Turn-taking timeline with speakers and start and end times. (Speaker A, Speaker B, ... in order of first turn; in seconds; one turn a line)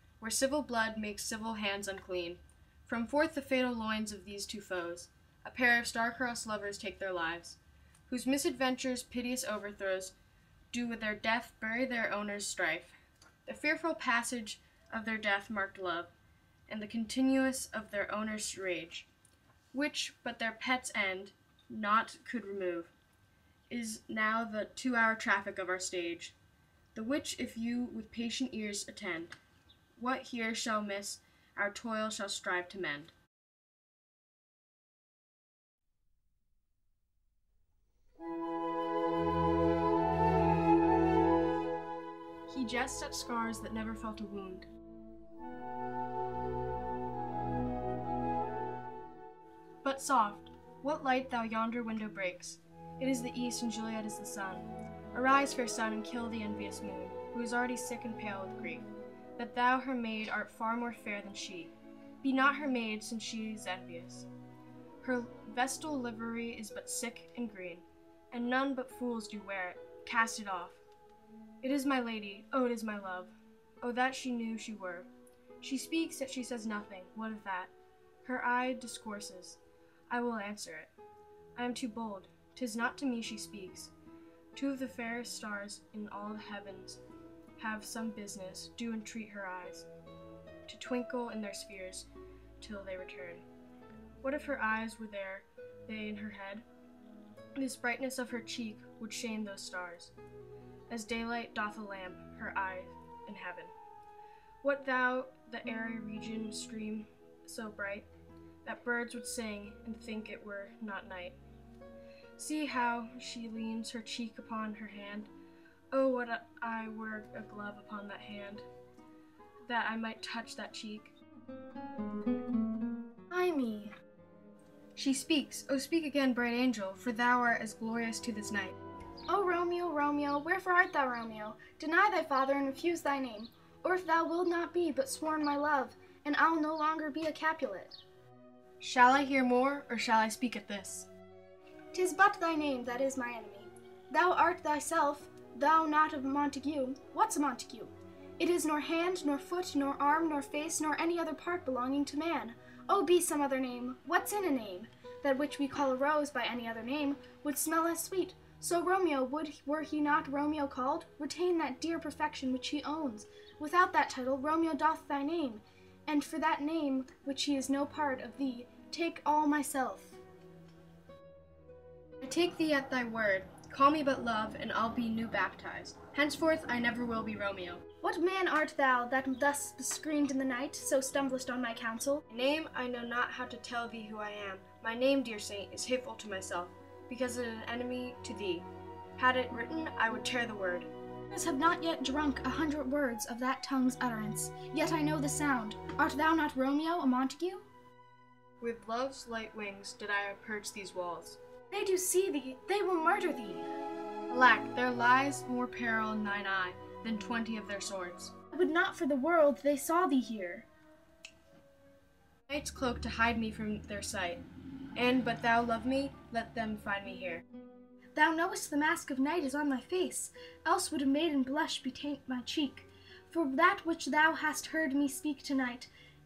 Speaker A: 0.2-10.1
Speaker A: 10.7-16.1
Speaker A: 16.7-19.1
Speaker A: 19.7-22.9
Speaker A: 23.7-26.3
Speaker A: 26.9-29.4
Speaker A: 29.9-33.1
Speaker A: 42.5-44.7
Speaker A: 49.8-64.3
Speaker A: 65.0-70.8
Speaker A: 71.6-75.1
Speaker A: 75.6-77.7
Speaker A: 78.2-80.9
Speaker A: 81.5-83.9
Speaker A: 84.5-87.0
Speaker A: 87.6-89.9
Speaker A: 90.7-92.1
Speaker A: 92.6-93.4
Speaker A: 94.2-96.7
Speaker A: 97.5-100.1
Speaker A: 100.9-103.7
Speaker A: 104.6-108.1
Speaker A: 108.6-111.4
Speaker A: 112.3-115.3
Speaker A: 115.9-118.7
Speaker A: 119.7-121.1
Speaker B: 123.3-123.9
Speaker A: 124.9-128.7
Speaker B: 129.3-138.0
Speaker A: 138.8-141.1
Speaker B: 141.9-170.2
Speaker A: 172.2-177.8
Speaker B: 178.0-182.2
Speaker A: 182.3-190.9
Speaker B: 191.3-197.7
Speaker A: 198.6-201.4
Speaker B: 201.7-203.7
Speaker A: 204.3-208.3
Speaker B: 208.5-210.7
Speaker A: 212.5-214.4
Speaker A: 214.9-217.4
Speaker B: 218.1-225.9